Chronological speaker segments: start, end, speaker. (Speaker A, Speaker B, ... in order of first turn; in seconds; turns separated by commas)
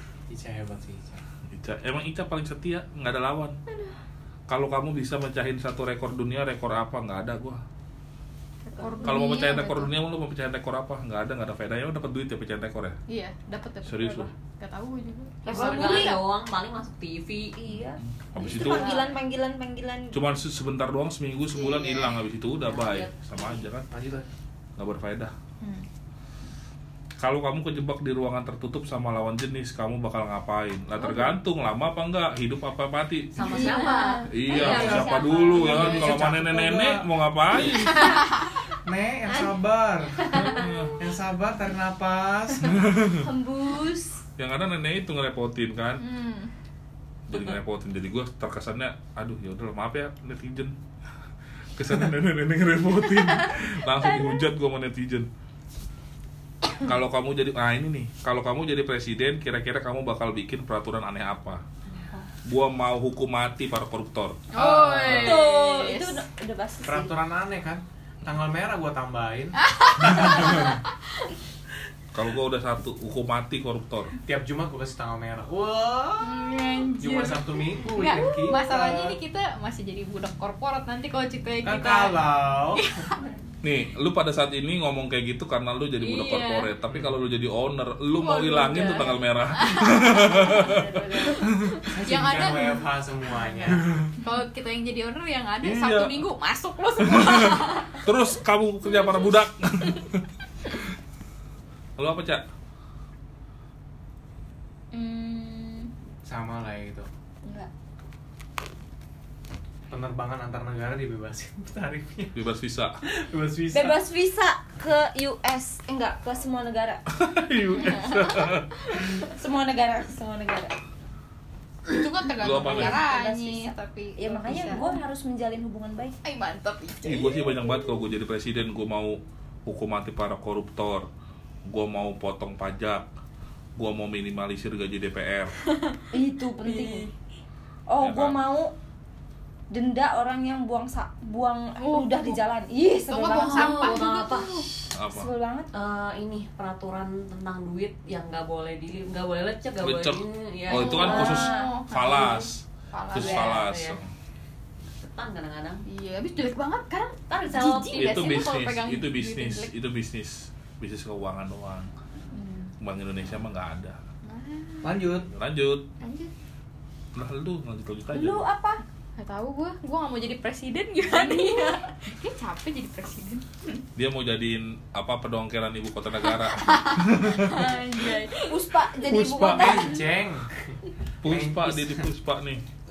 Speaker A: 0.3-1.2, Speaker B: 1.5-3.6, Speaker C: 3.7-4.0, Speaker B: 4.5-7.6, Speaker D: 8.7-9.9, Speaker C: 8.8-9.9, Speaker B: 9.0-13.0, Speaker D: 13.1-16.2, Speaker B: 13.8-14.3, Speaker C: 15.4-16.2, Speaker E: 15.5-17.6, Speaker C: 17.6-20.1, Speaker B: 18.0-18.9, Speaker E: 18.5-18.8, Speaker D: 18.5-19.1, Speaker B: 20.1-23.9, Speaker D: 21.5-22.2, Speaker C: 22.6-23.1, Speaker A: 23.9-24.2, Speaker B: 24.8-25.3, Speaker B: 27.2-33.7, Speaker E: 33.3-35.0, Speaker C: 33.4-36.4, Speaker B: 34.3-38.0, Speaker A: 34.5-37.0, Speaker C: 37.7-38.4, Speaker D: 37.9-38.4, Speaker A: 38.8-42.9, Speaker C: 40.2-40.9, Speaker B: 40.3-41.0, Speaker B: 42.7-43.2, Speaker C: 43.1-44.2, Speaker B: 44.4-46.0, Speaker D: 46.0-46.5, Speaker B: 47.3-50.7, Speaker B: 51.8-55.3, Speaker C: 54.0-54.4, Speaker B: 56.7-61.6, Speaker E: 61.9-62.2, Speaker B: 62.5-64.4, Speaker D: 64.5-66.2, Speaker A: 64.6-65.3, Speaker C: 65.1-67.1, Speaker B: 65.1-65.4, Speaker A: 66.8-69.6, Speaker D: 69.6-71.3, Speaker B: 70.2-70.5, Speaker B: 72.1-74.1, Speaker A: 74.2-79.2, Speaker D: 76.2-83.3, Speaker C: 78.3-78.6, Speaker A: 81.6-83.0, Speaker B: 83.6-91.9, Speaker D: 86.0-86.7, Speaker A: 86.9-87.1, Speaker D: 88.2-92.8, Speaker C: 90.0-91.5, Speaker A: 91.9-94.1, Speaker D: 94.2-98.0, Speaker B: 95.6-96.2, Speaker B: 97.0-100.2, Speaker B: 102.0-102.4, Speaker C: 104.9-105.9, Speaker A: 106.2-107.1, Speaker C: 107.4-107.7, Speaker A: 109.9-112.4, Speaker B: 112.3-113.0, Speaker A: 113.0-114.0, Speaker C: 113.7-117.0, Speaker B: 117.1-119.1, Speaker D: 118.0-118.5, Speaker C: 118.9-120.7, Speaker D: 121.9-125.0, Speaker B: 122.4-123.0, Speaker C: 122.4-126.2, Speaker D: 126.2-127.6, Speaker B: 127.0-131.1, Speaker B: 131.7-133.1, Speaker B: 133.8-135.5, Speaker C: 136.1-137.1, Speaker E: 136.6-137.0, Speaker C: 137.9-138.7, Speaker B: 138.0-138.4, Speaker C: 139.7-144.0, Speaker D: 141.8-142.4, Speaker D: 143.1-144.7, Speaker E: 143.2-144.9, Speaker B: 144.9-145.3, Speaker C: 145.1-145.7, Speaker E: 145.7-151.4, Speaker B: 149.8-152.6, Speaker D: 150.7-153.5, Speaker C: 151.0-151.7, Speaker B: 153.1-154.1, Speaker E: 153.1-154.0, Speaker E: 154.8-155.8, Speaker D: 155.9-159.7, Speaker E: 157.3-158.1, Speaker B: 157.9-161.9, Speaker C: 162.3-162.7, Speaker B: 162.8-164.0, Speaker D: 164.3-164.9, Speaker A: 164.8-165.3, Speaker B: 165.3-165.8, Speaker D: 166.0-166.3, Speaker B: 167.1-168.5, Speaker C: 168.1-168.8, Speaker D: 169.2-173.8, Speaker C: 171.2-171.6, Speaker B: 173.9-177.7, Speaker D: 176.3-178.6, Speaker C: 178.3-180.0, Speaker B: 179.0-179.9, Speaker A: 179.5-182.0, Speaker B: 181.2-182.6